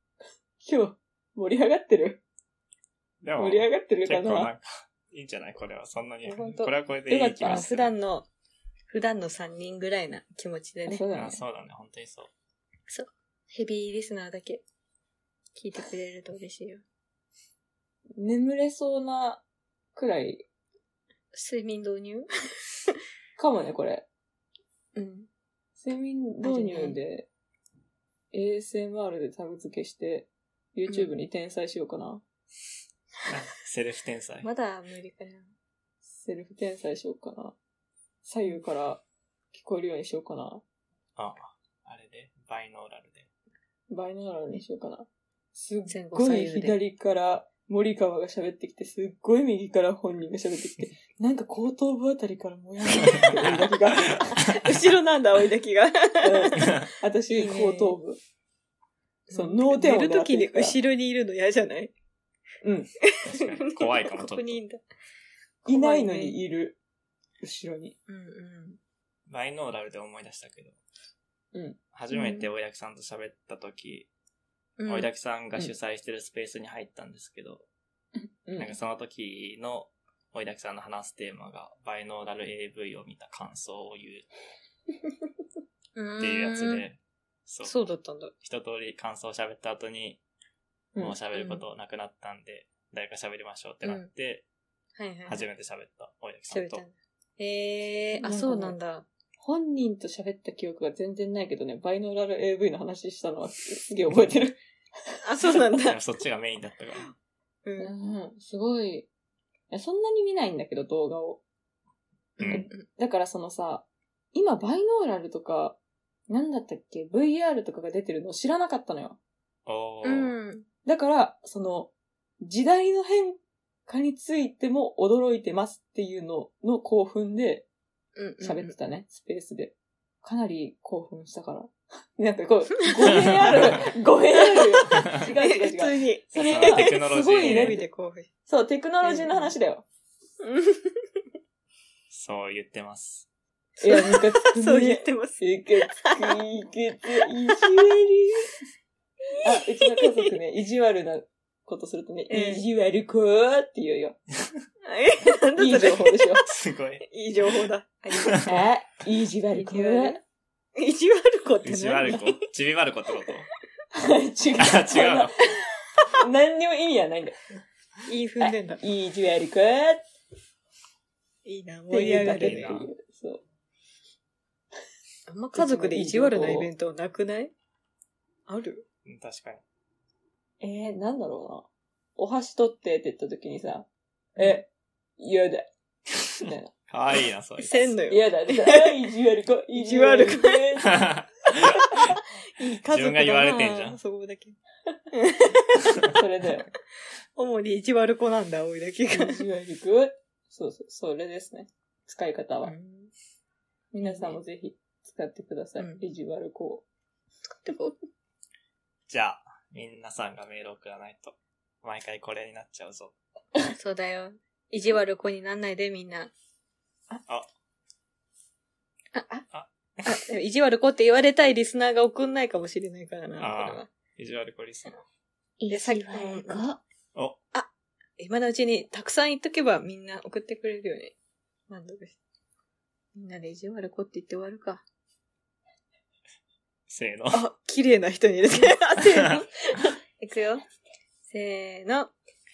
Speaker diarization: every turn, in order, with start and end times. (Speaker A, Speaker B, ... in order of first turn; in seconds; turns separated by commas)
Speaker A: 0.6-2.2, Speaker B: 3.2-7.9, Speaker A: 3.4-4.5, Speaker C: 6.2-6.7, Speaker A: 7.1-7.7, Speaker C: 7.4-8.3, Speaker C: 8.9-11.0, Speaker A: 10.8-11.4, Speaker B: 11.1-12.3, Speaker C: 12.9-14.6, Speaker C: 15.5-16.8, Speaker A: 18.2-19.4, Speaker A: 19.9-20.4, Speaker C: 21.3-22.3, Speaker A: 23.4-24.1, Speaker C: 24.9-25.3, Speaker A: 25.8-27.3, Speaker C: 26.4-27.0, Speaker A: 28.3-32.2, Speaker C: 30.9-31.1, Speaker B: 33.3-34.5, Speaker C: 34.4-35.5, Speaker A: 36.1-37.5, Speaker A: 38.2-40.6, Speaker B: 41.2-43.3, Speaker A: 43.9-54.4, Speaker C: 45.9-46.8, Speaker C: 52.9-53.4, Speaker B: 53.2-54.7, Speaker C: 54.3-56.8, Speaker A: 56.2-58.2, Speaker B: 56.6-56.9, Speaker C: 57.3-58.0, Speaker C: 59.3-61.9, Speaker A: 59.3-60.8, Speaker A: 62.6-62.9, Speaker C: 63.0-64.8, Speaker B: 63.2-64.6, Speaker C: 65.6-66.4, Speaker A: 65.7-66.8, Speaker A: 67.4-68.0, Speaker C: 68.1-68.8, Speaker B: 69.3-70.8, Speaker A: 71.5-71.8, Speaker B: 71.9-74.1, Speaker C: 72.1-72.5, Speaker C: 74.8-75.1, Speaker B: 74.9-77.6, Speaker A: 78.2-78.7, Speaker B: 78.6-84.3, Speaker C: 85.9-86.8, Speaker B: 86.2-90.2, Speaker C: 87.6-88.3, Speaker B: 91.0-94.4, Speaker C: 91.3-91.6, Speaker C: 93.8-94.1, Speaker C: 95.0-95.4, Speaker B: 95.2-96.8, Speaker C: 96.5-99.1, Speaker A: 98.2-98.8, Speaker A: 99.4-105.2, Speaker C: 105.2-106.0, Speaker B: 105.7-107.1, Speaker C: 107.6-107.9, Speaker A: 107.8-109.1, Speaker A: 109.7-111.4, Speaker B: 112.4-112.7, Speaker C: 112.4-112.8, Speaker A: 112.4-115.8, Speaker A: 116.3-119.2, Speaker B: 119.7-120.3, Speaker C: 120.0-120.7, Speaker A: 120.8-127.7, Speaker C: 128.2-128.7, Speaker A: 128.4-137.9, Speaker C: 132.8-133.8, Speaker C: 134.3-138.3, Speaker B: 136.3-137.8, Speaker A: 138.4-139.8, Speaker C: 139.0-139.5, Speaker C: 140.4-141.0, Speaker B: 142.1-143.3, Speaker C: 143.8-146.4, Speaker A: 143.8-148.5, Speaker C: 147.4-147.9, Speaker C: 149.3-150.3, Speaker A: 149.4-154.2, Speaker C: 152.3-152.6, Speaker C: 154.8-156.4, Speaker A: 155.6-156.4, Speaker B: 156.4-157.1, Speaker C: 157.0-158.5, Speaker B: 158.1-158.6, Speaker A: 158.4-160.2, Speaker C: 159.5-160.2, Speaker C: 160.8-162.4, Speaker B: 161.6-163.5, Speaker A: 163.9-165.3, Speaker B: 164.6-165.3, Speaker A: 166.1-167.4, Speaker C: 168.1-168.8, Speaker A: 168.4-170.0, Speaker C: 171.4-172.7, Speaker A: 171.9-173.4, Speaker B: 172.3-172.9, Speaker C: 175.3-177.5, Speaker A: 175.5-176.7, Speaker C: 178.5-178.8, Speaker B: 179.0-179.6, Speaker A: 180.6-185.7, Speaker A: 186.2-186.7, Speaker B: 186.9-188.0, Speaker C: 187.6-189.0, Speaker A: 188.1-191.1, Speaker C: 189.7-190.8, Speaker B: 190.8-192.2, Speaker C: 191.6-194.6, Speaker B: 192.8-194.0, Speaker C: 195.1-196.2, Speaker A: 196.1-196.7, Speaker C: 197.3-199.4, Speaker A: 199.1-202.7, Speaker C: 202.6-203.1, Speaker A: 203.9-206.8, Speaker C: 204.0-204.4, Speaker C: 207.6-207.9, Speaker B: 209.1-213.1, Speaker C: 213.7-216.3, Speaker C: 219.1-219.4, Speaker B: 219.5-220.2, Speaker C: 220.0-223.9, Speaker B: 223.4-225.0, Speaker A: 225.6-226.8, Speaker C: 225.7-226.7, Speaker C: 227.5-231.2, Speaker C: 231.7-232.2, Speaker C: 233.1-234.8, Speaker B: 236.9-237.4, Speaker C: 237.3-240.6, Speaker B: 239.0-239.4, Speaker C: 241.2-242.1